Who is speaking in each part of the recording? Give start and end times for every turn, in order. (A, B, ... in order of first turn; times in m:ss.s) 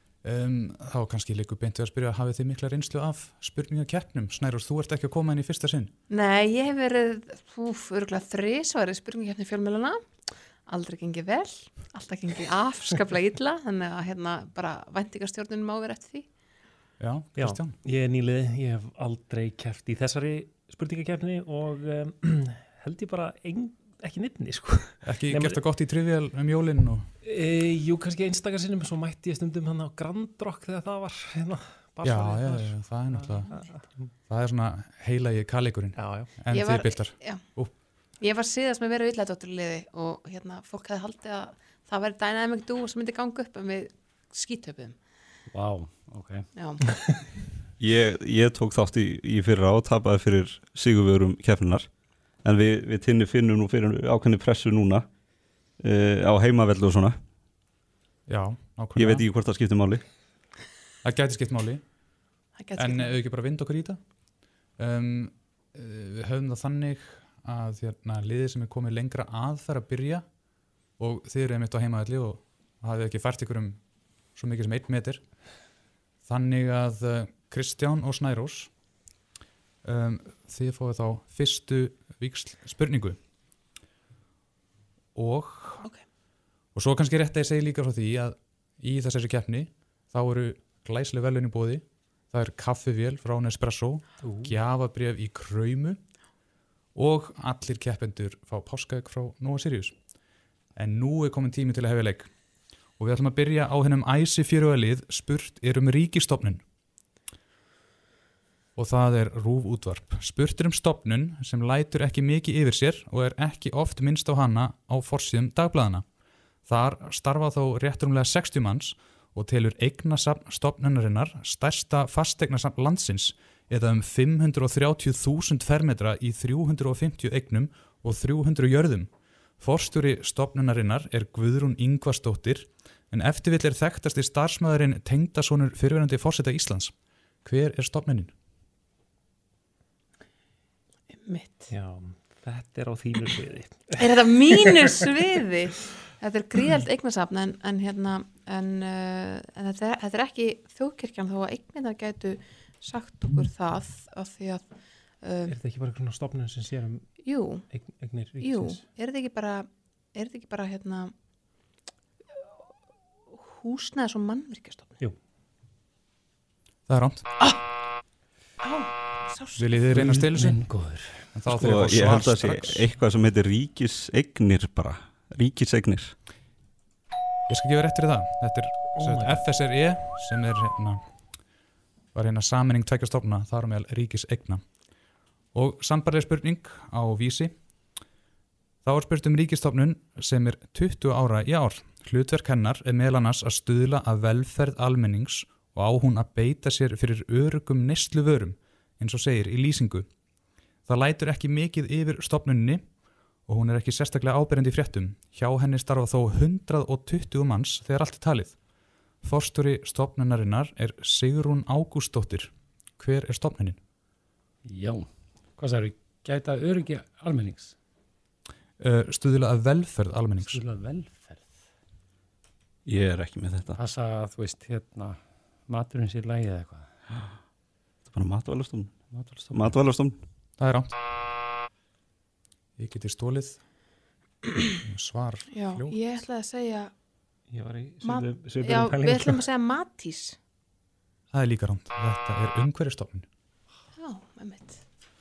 0:00.2-0:05.9 A
0:06.1-0:16.3 B
0:17.0-0:17.8 A
0:17.4-0:25.6 C
0:25.0-0:27.1 A
0:27.2-0:34.1 C
0:32.0-0:33.5 A
0:34.3-0:37.7 A
0:35.9-0:36.4 C
0:36.4-0:37.4 B
0:38.2-0:45.2 B
0:45.5-0:46.5 D
0:46.5-0:46.9 B
0:47.8-0:55.0 E
0:55.8-0:57.2 E
0:58.3-0:59.2 A
0:58.9-1:00.0 E
1:01.0-1:01.8 A
1:02.5-1:03.1 B
1:02.8-1:04.0 A
1:04.8-1:10.3 A
1:11.0-1:15.6 A
1:16.2-1:18.7 A
1:19.8-1:23.2 A
1:25.1-1:25.8 A
1:26.7-1:36.0 A
1:34.2-1:34.5 C
1:36.9-1:40.0 A
1:40.8-1:42.4 A
1:43.0-1:46.6 A
1:48.7-1:56.0 A
1:56.6-2:18.3 A
2:21.1-2:21.7 B
2:21.7-2:23.9 C
2:24.0-2:35.5 B
2:35.5-2:38.8 C
2:37.2-2:37.8 B
2:38.3-2:41.1 B
2:43.3-2:45.0 B
2:46.9-2:47.2 A
2:48.6-2:49.7 B
2:49.6-2:50.6 A
2:49.9-2:51.3 D
2:51.3-2:52.9 A
2:51.4-2:56.1 E
2:57.5-3:01.1 A
2:59.0-2:59.4 C
3:02.1-3:04.6 A
3:05.5-3:07.5 A
3:08.8-3:20.1 A
3:20.8-3:22.8 A
3:23.4-3:28.6 A
3:29.2-3:33.8 A
3:34.6-3:37.7 D
3:38.8-3:40.6 A
3:40.4-3:41.6 D
3:42.8-3:43.8 E
3:43.8-3:47.0 D
3:48.1-3:50.2 E
3:49.1-3:49.6 D
3:50.6-3:50.9 A
3:52.8-3:53.6 A
3:54.9-3:56.0 A
3:55.5-3:56.9 B
3:57.5-3:59.4 C
3:58.0-4:00.4 B
4:01.3-4:03.3 A
4:03.9-4:04.8 B